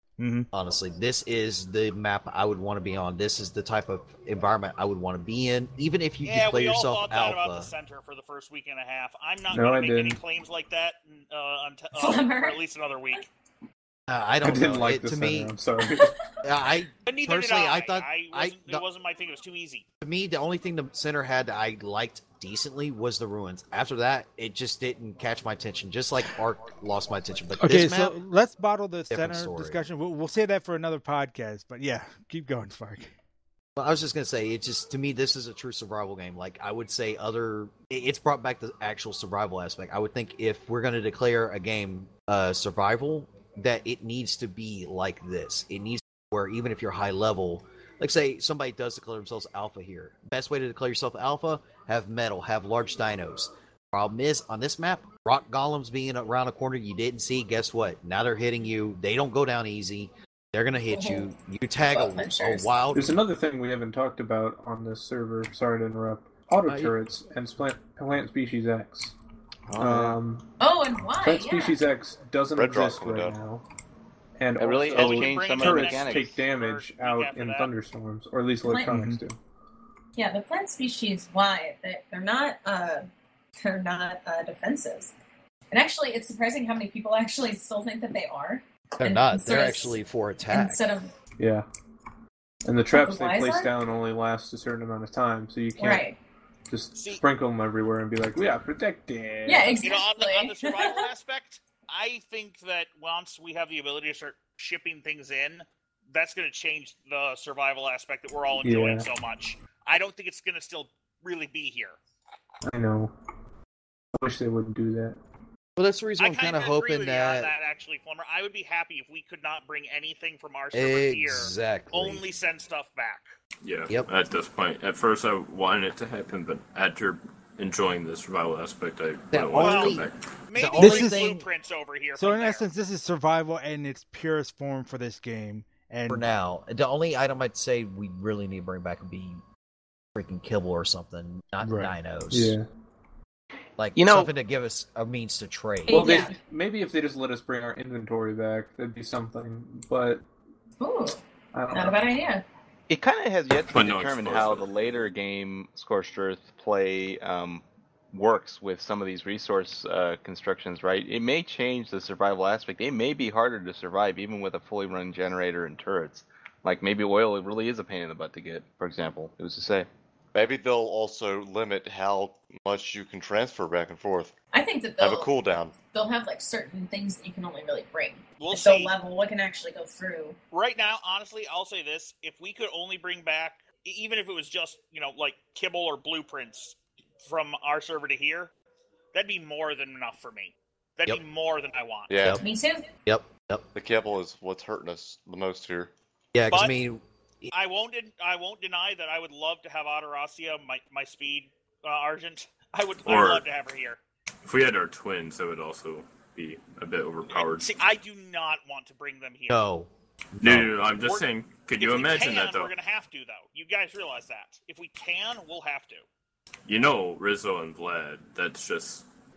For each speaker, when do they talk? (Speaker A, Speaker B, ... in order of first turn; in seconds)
Speaker A: 0.2-0.5, 27.6-33.1, 78.8-79.2, 130.8-131.4, 132.2-136.2, 141.6-141.9
Speaker B: 0.5-7.7, 14.1-15.5, 16.4-18.8, 20.0-28.1, 29.1-29.8, 33.8-63.1, 66.7-66.9, 89.0-90.8, 115.8-117.5, 120.7-122.2, 129.3-131.4, 136.1-139.4, 140.1-142.6, 143.8-146.3, 193.1-193.7, 196.3-197.5, 209.5-210.7
Speaker C: 6.2-13.3, 17.1-19.8, 74.9-77.7, 96.9-97.2, 99.8-112.0, 116.2-123.3, 129.5-132.7, 178.4-178.9, 180.5-188.5, 189.1-192.1, 196.5-196.8, 197.5-204.0, 207.3-209.7, 210.9-216.0
Speaker D: 9.5-10.2, 14.4-16.1, 62.9-69.1, 69.8-70.5, 71.2-73.6, 74.4-79.4, 91.4-91.7, 92.6-96.0, 96.7-99.8, 108.6-109.1, 112.7-113.1, 114.2-115.2, 142.3-142.6, 145.9-150.2, 151.5-152.0
Speaker E: 11.9-12.6, 60.9-61.3, 61.9-62.9, 70.6-71.8, 78.6-79.0, 80.1-83.0, 83.6-85.1, 85.7-90.0, 90.5-91.1, 92.9-93.7, 95.8-96.2, 99.5-101.0, 145.9-146.4, 150.8-152.4, 174.5-175.3, 175.9-180.4, 192.4-192.9
Speaker F: 69.7-70.2, 74.6-76.4, 143.9-144.3, 152.9-169.9
Speaker G: 72.5-73.4, 170.3-174.3, 175.0-175.7, 192.1-192.4, 193.7-195.9
Speaker H: 123.6-130.2, 153.7-154.7, 203.0-203.4, 204.4-207.7, 210.4-212.7, 216.7-219.1